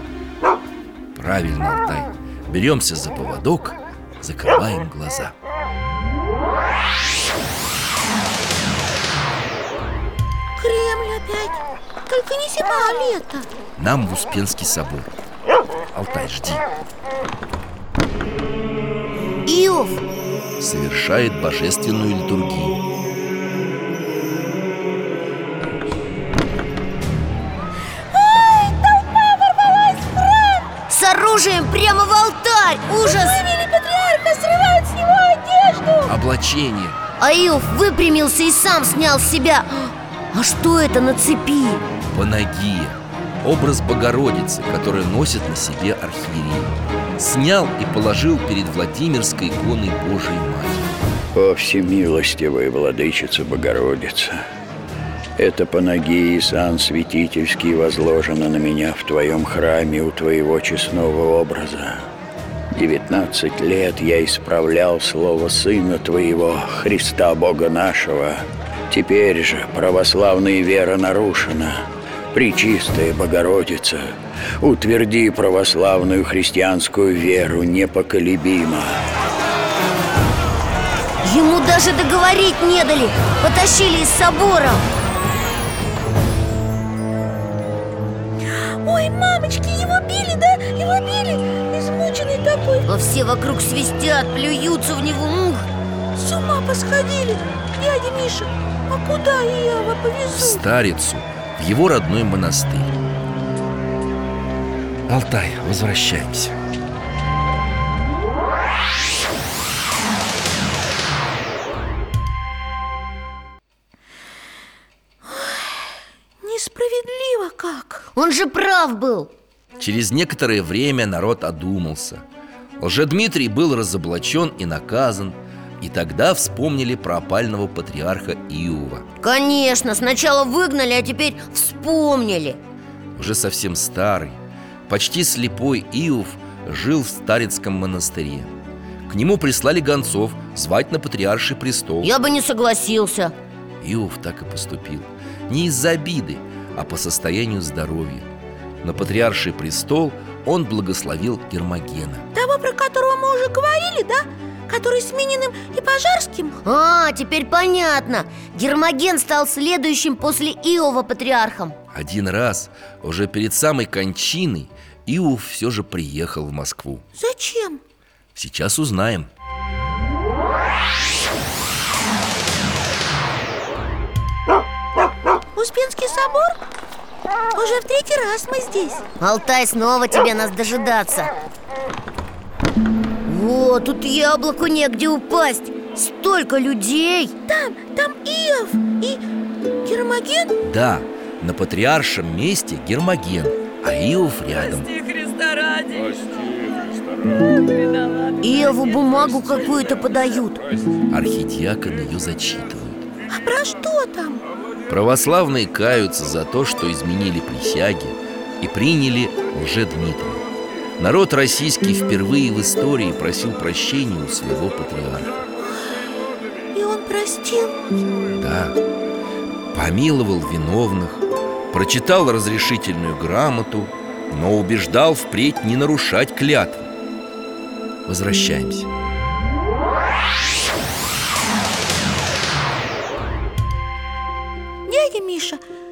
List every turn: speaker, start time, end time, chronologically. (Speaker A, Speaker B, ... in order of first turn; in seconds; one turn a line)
Speaker A: 1.1-5.3
Speaker B: 10.6-13.5
Speaker A: 13.8-15.1
Speaker A: 15.9-16.6
Speaker C: 19.4-20.0
Speaker A: 20.6-22.8
Speaker B: 28.1-30.7
Speaker C: 30.9-33.4
Speaker B: 33.0-36.1
Speaker A: 36.0-37.0
Speaker C: 37.2-41.8
Speaker A: 42.1-50.9
Speaker D: 51.3-54.4
Speaker D: 55.4-62.0
Speaker D: 62.7-79.0
Speaker C: 81.2-84.8
Speaker B: 88.8-92.9
Speaker C: 92.9-95.7
Speaker B: 96.1-100.6
Speaker A: 100.3-102.9
Speaker A: 105.1-106.6
Speaker B: 115.3-115.7
Speaker B: 116.4-118.0
Speaker C: 118.1-119.3
Speaker A: 119.8-122.2
Speaker A: 122.8-129.1
Speaker C: 129.2-132.6
Speaker A: 133.2-138.5
Speaker A: 139.1-142.1
Speaker C: 142.0-143.3
Speaker A: 143.8-148.3
Speaker A: 148.8-152.3
Speaker B: 152.3-156.6
Speaker C: 156.6-161.8
Speaker A: 161.9-167.0
Speaker B: 167.2-167.8
Speaker A: 168.3-169.3
Speaker B: 175.5-176.6
Speaker B: 177.5-179.1
Speaker C: 179.2-181.3
Speaker C: 183.2-187.3
Speaker B: 187.5-189.2
Speaker B: 189.8-190.6
Speaker A: 190.6-195.2
Speaker C: 198.4-200.6
Speaker A: 201.1-203.1
Speaker B: 203.3-204.4
Speaker A: 204.9-210.4
Speaker A: 211.0-215.4
Speaker B: 215.7-215.9
Speaker B: 216.7-218.0
Speaker A: 218.4-218.8
Speaker A: 219.7-226.9
Speaker A: 228.1-228.9
Speaker B: 234.9-235.6